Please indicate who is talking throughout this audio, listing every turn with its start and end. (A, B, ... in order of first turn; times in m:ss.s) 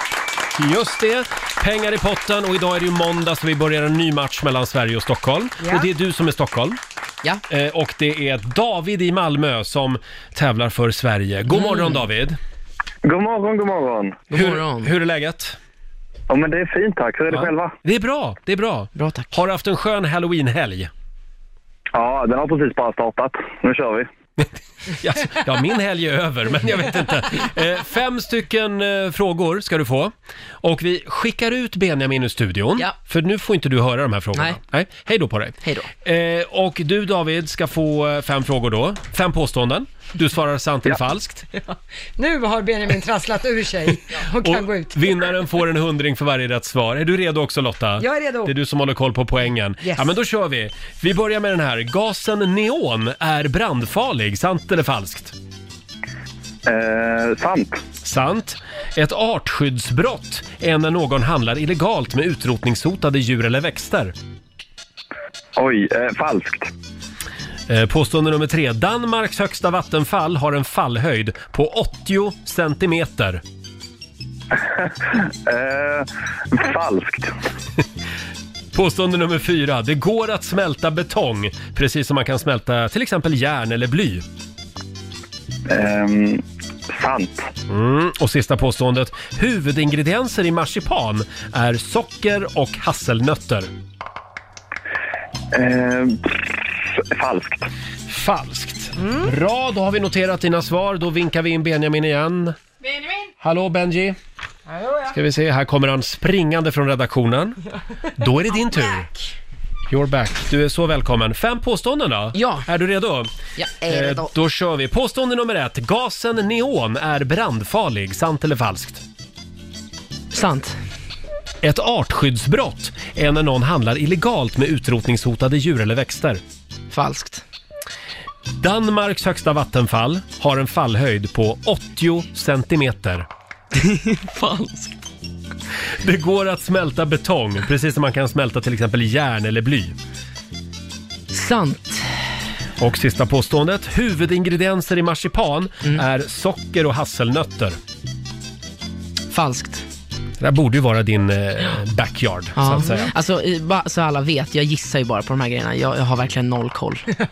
0:00.5-0:06.8 A
0:05.6-0:05.9 B
0:07.5-0:12.4 A
0:11.5-0:12.0 C
0:13.0-0:14.2 D
0:14.3-0:14.9 C
0:14.3-0:15.6 A
0:16.3-0:17.7 D
0:17.3-0:20.9 A
0:18.9-0:19.4 C
0:21.9-0:24.1 D
0:25.0-0:41.4 A
0:35.6-0:35.9 C
0:41.7-0:45.3 B
0:44.4-0:55.3 A
0:48.0-0:48.5 B
0:49.8-0:50.2 B
0:56.6-0:57.8 D
0:58.0-1:04.1 A
1:05.6-1:06.7 D
1:07.7-1:13.4 A
1:14.6-1:17.3 D
1:18.7-1:24.2 A
1:25.7-1:27.5 D
1:27.7-1:33.7 A
1:35.5-1:37.6 D
1:38.1-1:42.6 A
1:39.0-1:39.3 B
1:43.4-1:44.2 A
1:45.1-1:47.6 A
1:48.2-1:49.1 A
1:49.9-1:53.3 A
1:52.3-1:52.7 C
1:53.6-1:54.3 C
1:53.9-1:59.0 A
2:00.3-2:00.8 C
2:01.6-2:06.4 A
2:06.9-2:07.4 C
2:08.6-2:13.3 A
2:13.7-2:15.0 C
2:16.0-2:20.0 A
2:21.3-2:22.2 C
2:22.8-2:27.8 A
2:29.3-2:29.8 C
2:30.4-2:33.1 A
2:32.6-2:37.0 C